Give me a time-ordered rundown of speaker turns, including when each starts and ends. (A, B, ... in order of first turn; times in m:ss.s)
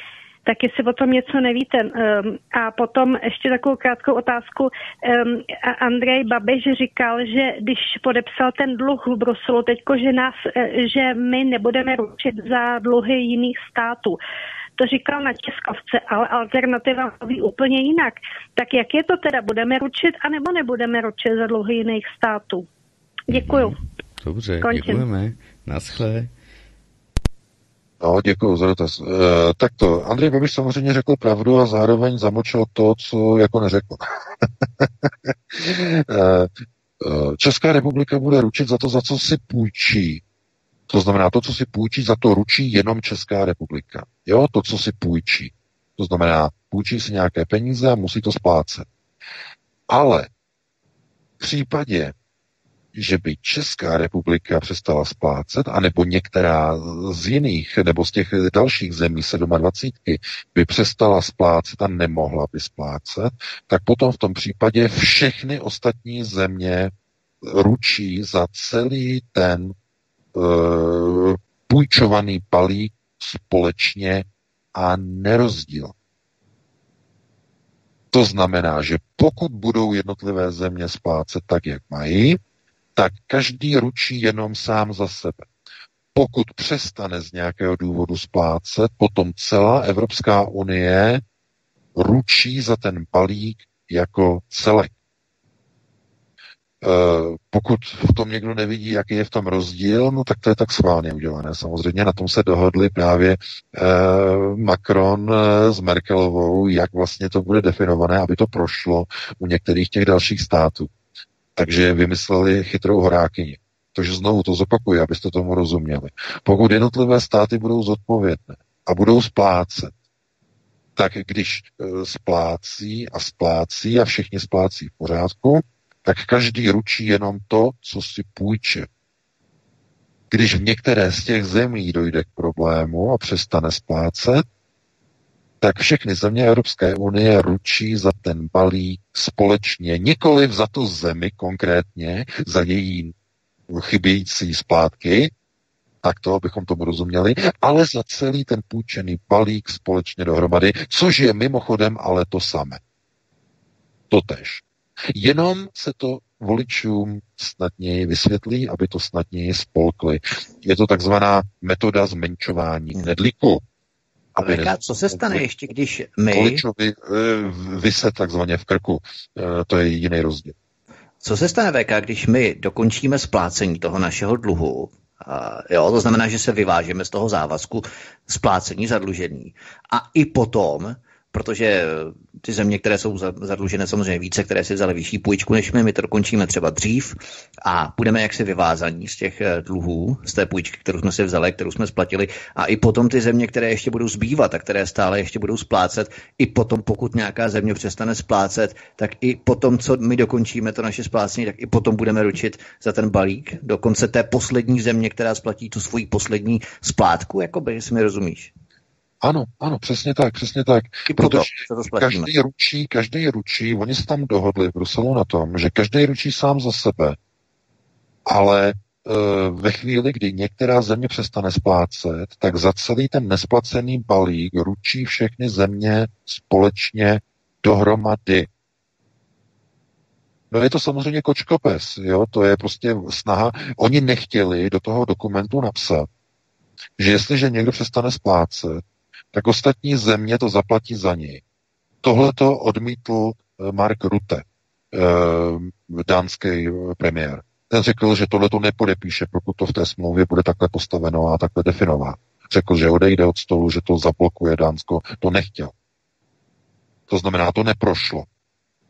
0:00.4-0:14.2 A
0:14.8-0:22.7 A
0:23.3-0:23.8 A
0:23.3-0:26.3 B
0:24.6-0:25.0 A
0:28.0-0:40.2 C
0:40.9-0:48.8 C
0:49.9-0:50.3 C
0:51.4-0:52.1 C
0:52.9-1:09.7 C
1:10.3-1:15.9 C
1:18.1-1:22.4 C
1:23.0-1:25.5 C
1:26.1-1:31.2 C
1:32.0-1:34.9 C
1:36.8-1:50.9 C
1:51.6-1:59.9 C
2:01.0-2:08.9 C
2:10.3-2:14.4 C
2:15.6-2:23.1 C
2:23.7-2:25.3 C
2:26.0-2:32.8 C
2:34.1-2:43.6 C
2:44.4-2:45.4 C
2:44.4-2:46.6 D
2:46.3-2:50.5 C
2:51.2-3:28.5 D
3:29.2-3:37.2 C
3:31.1-3:32.3 D
3:38.2-3:48.5 C
3:50.5-3:56.1 C
3:57.0-3:58.8 C
3:59.3-4:01.4 C
4:02.0-4:15.7 C
4:17.1-4:18.3 C